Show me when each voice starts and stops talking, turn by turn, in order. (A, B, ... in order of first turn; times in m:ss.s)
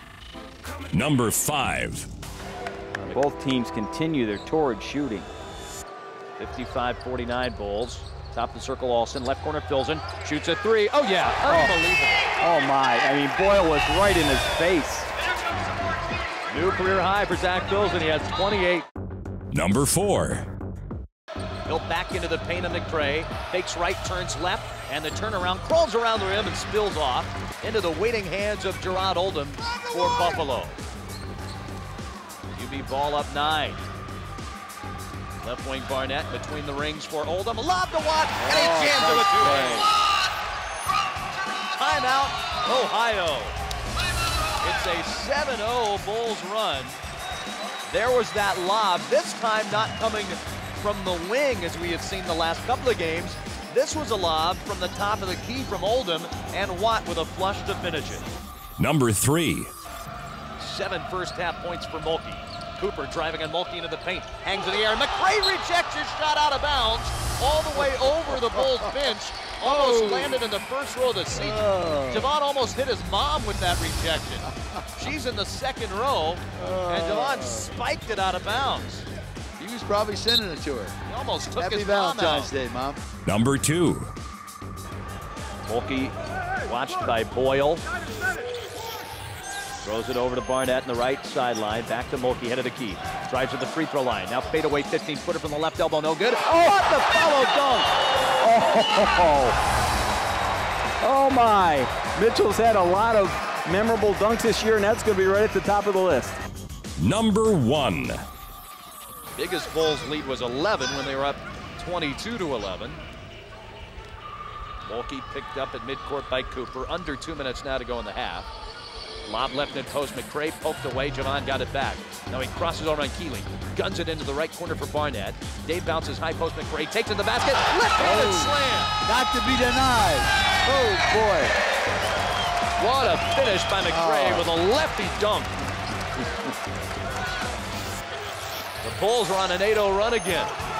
0:00.9-0:02.1 A
0:03.0-0:03.2 B
0:03.1-0:05.3 C
0:06.4-0:12.2 B
0:11.4-0:11.8 C
0:12.4-0:15.1 C
0:16.5-0:18.8 B
0:19.5-0:20.4 A
0:21.6-0:30.8 B
0:32.5-0:33.8 B
0:35.4-0:39.9 B
0:38.4-0:39.9 C
0:41.7-0:43.6 B
0:44.6-0:47.0 B
0:47.9-0:58.2 B
0:58.8-0:59.7 A
1:00.6-1:19.1 B
1:09.6-1:10.4 D
1:11.3-1:12.3 D
1:16.6-1:17.7 D
1:19.6-1:20.9 D
1:21.0-1:22.5 B
1:21.6-1:23.0 D
1:23.2-1:24.1 A
1:25.6-1:27.8 B
1:29.8-1:37.8 B
1:38.4-1:39.6 C
1:41.0-1:46.4 C
1:47.0-1:48.2 A
1:49.3-1:53.0 B
1:54.8-1:58.5 B
1:59.2-2:09.0 B
2:08.0-2:11.6 D
2:12.8-2:15.5 B
2:13.8-2:14.5 D
2:18.8-2:20.5 B